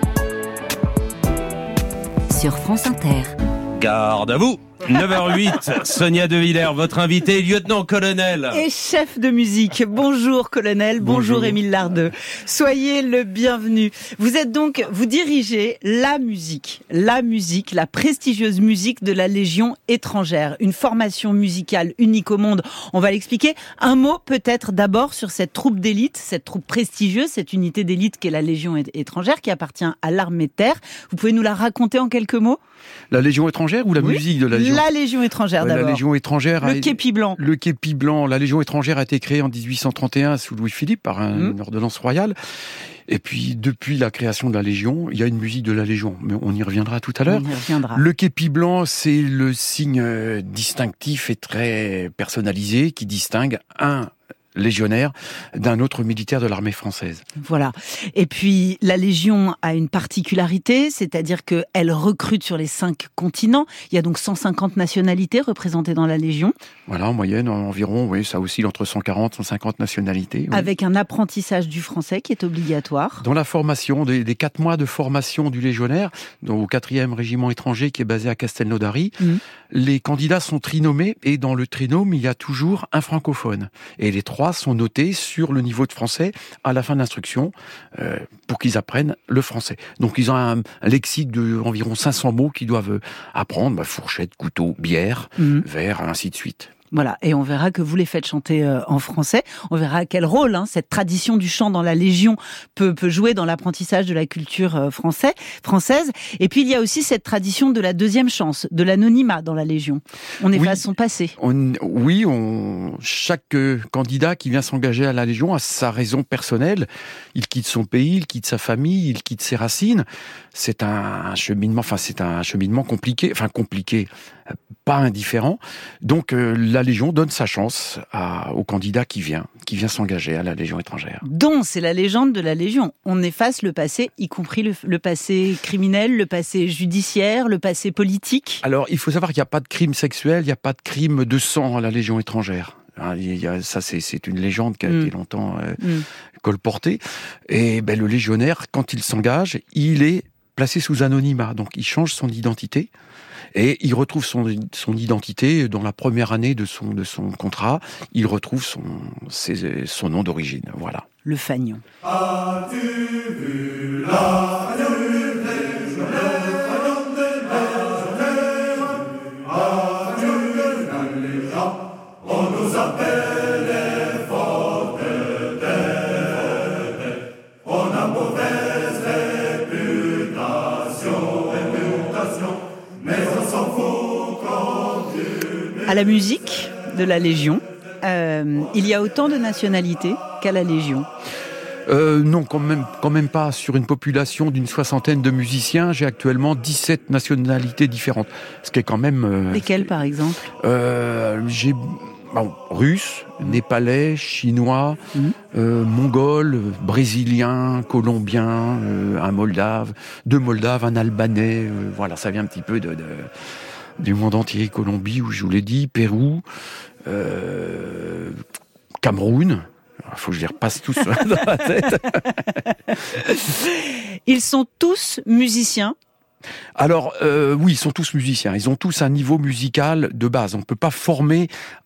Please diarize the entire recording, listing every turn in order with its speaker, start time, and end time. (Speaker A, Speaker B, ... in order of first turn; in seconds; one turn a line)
Speaker A: 2.3-3.3
Speaker B: 3.8-8.6
Speaker A: 8.5-32.6
Speaker C: 33.1-34.9
Speaker A: 34.0-36.0
Speaker C: 35.6-42.4
Speaker A: 36.6-37.4
Speaker C: 43.1-57.2
Speaker A: 47.3-48.0
Speaker A: 57.4-66.5
Speaker C: 66.9-70.7
Speaker A: 70.5-73.2
Speaker C: 73.2-79.2
Speaker C: 79.7-96.7
Speaker A: 95.4-95.7
Speaker A: 96.9-111.3
Speaker C: 110.5-110.8
Speaker C: 111.4-124.1
Speaker C: 124.8-131.2
Speaker A: 131.2-138.6
Speaker C: 138.6-145.8
Speaker A: 144.9-145.1
Speaker A: 145.8-146.1
Speaker C: 146.4-152.9
Speaker C: 153.6-161.1
Speaker A: 161.2-161.8
Speaker A: 185.8-191.1
Speaker C: 191.9-199.9
Speaker A: 199.5-200.5
Speaker C: 200.6-205.0
Speaker C: 205.5-213.3
Speaker C: 214.0-216.4
Speaker C: 217.1-218.4
Speaker C: 219.0-222.6
Speaker A: 223.5-225.9
Speaker C: 226.8-231.5